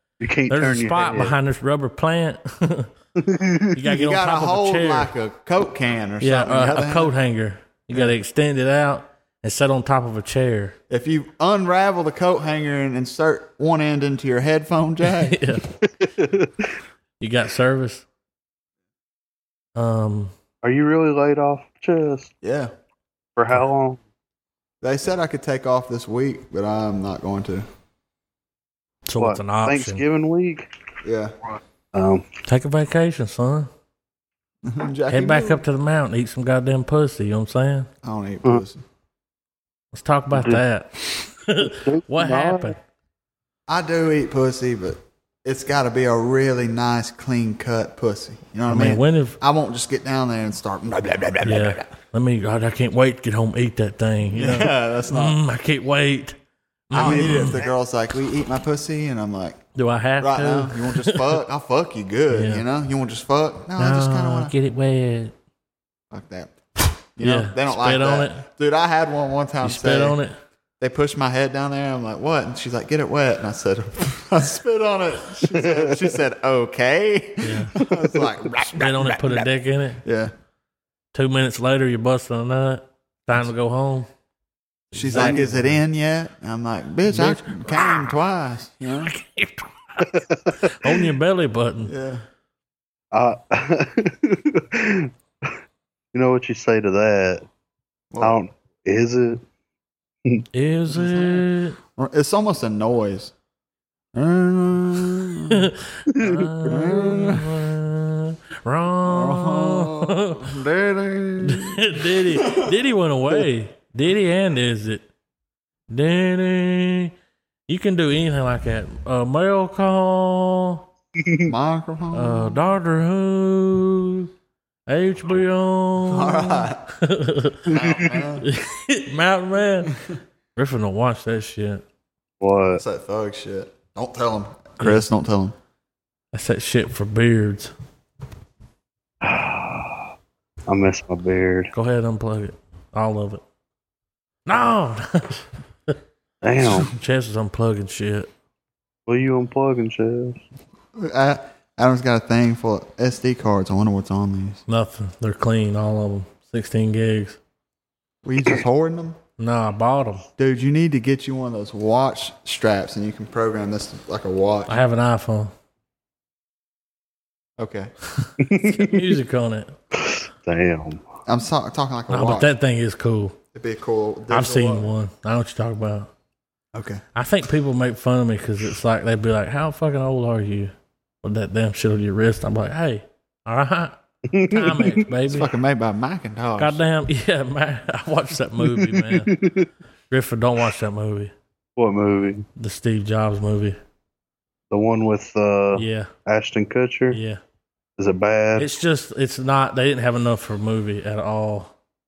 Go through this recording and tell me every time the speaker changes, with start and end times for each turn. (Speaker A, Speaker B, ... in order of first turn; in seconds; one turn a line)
Speaker A: 0.2-1.4
Speaker B: 0.5-2.9
Speaker A: 3.2-3.8
Speaker B: 3.7-5.1
Speaker C: 3.9-7.1
Speaker B: 6.2-10.8
Speaker C: 10.9-15.4
Speaker B: 15.1-15.7
Speaker A: 16.0-16.6
Speaker B: 17.2-18.1
Speaker B: 19.8-20.3
Speaker A: 20.6-22.3
Speaker C: 22.4-22.7
Speaker A: 23.4-24.0
Speaker C: 24.8-27.7
Speaker B: 29.1-30.0
Speaker A: 29.2-30.7
Speaker C: 31.0-31.3
Speaker A: 31.9-32.3
Speaker B: 32.5-33.7
Speaker C: 34.6-35.6
Speaker B: 35.1-37.9
Speaker C: 38.0-38.8
Speaker B: 39.9-42.8
Speaker A: 40.3-40.6
Speaker A: 41.6-42.7
Speaker C: 43.7-51.8
Speaker B: 48.7-49.4
Speaker B: 51.4-56.4
Speaker C: 54.3-55.4
Speaker B: 56.9-57.6
Speaker C: 56.9-59.6
Speaker A: 56.9-57.7
Speaker B: 59.8-61.4
Speaker C: 60.2-64.5
Speaker B: 62.3-62.6
Speaker B: 63.8-65.3
Speaker C: 66.1-70.2
Speaker B: 67.2-68.5
Speaker B: 69.6-70.4
Speaker C: 70.8-79.5
Speaker A: 75.5-76.2
Speaker B: 77.4-77.7
Speaker A: 77.8-78.3
Speaker B: 78.7-80.0
Speaker C: 80.0-80.3
Speaker B: 81.1-84.1
Speaker B: 84.9-85.8
Speaker C: 84.9-89.1
Speaker B: 87.1-88.0
Speaker B: 89.0-91.9
Speaker A: 90.1-91.0
Speaker C: 91.8-92.2
Speaker A: 93.1-95.5
Speaker A: 96.1-97.5
Speaker C: 98.1-98.4
Speaker A: 98.2-99.4
Speaker B: 100.5-101.8
Speaker C: 100.9-103.3
Speaker C: 104.1-105.7
Speaker B: 105.5-110.5
Speaker A: 106.1-106.9
Speaker C: 106.7-107.5
Speaker C: 109.0-112.7
Speaker B: 111.4-115.1
Speaker B: 115.9-117.1
Speaker B: 117.7-120.8
Speaker A: 121.2-121.5
Speaker C: 121.4-122.6
Speaker B: 122.1-124.3
Speaker B: 124.9-127.7
Speaker C: 126.0-126.8
Speaker A: 127.7-128.2
Speaker C: 127.7-128.5
Speaker B: 128.4-129.9
Speaker B: 130.6-131.8
Speaker A: 132.4-132.8
Speaker C: 132.7-135.6
Speaker B: 134.8-135.0
Speaker B: 136.3-137.7
Speaker A: 139.2-140.1
Speaker A: 140.7-141.7
Speaker B: 141.7-143.4
Speaker B: 144.4-146.0
Speaker A: 146.4-146.9
Speaker B: 146.6-148.3
Speaker A: 149.1-150.4
Speaker C: 150.9-154.6
Speaker B: 154.7-157.4
Speaker C: 158.2-159.2
Speaker B: 159.4-160.2
Speaker C: 160.4-164.8
Speaker B: 164.7-165.5
Speaker C: 167.6-167.9
Speaker B: 168.1-169.7
Speaker A: 168.4-169.1
Speaker A: 170.0-171.0
Speaker C: 171.3-172.5
Speaker B: 172.1-173.4
Speaker C: 173.5-174.9
Speaker B: 174.3-176.1
Speaker C: 176.7-177.0
Speaker B: 177.1-185.5
Speaker A: 184.3-185.0
Speaker C: 185.3-186.8
Speaker B: 186.6-189.3
Speaker A: 188.7-189.7
Speaker B: 190.1-191.3
Speaker A: 191.8-192.4
Speaker B: 192.6-193.8
Speaker A: 194.7-197.2
Speaker B: 195.7-196.1
Speaker B: 197.1-197.4
Speaker A: 198.0-198.7
Speaker B: 198.6-201.7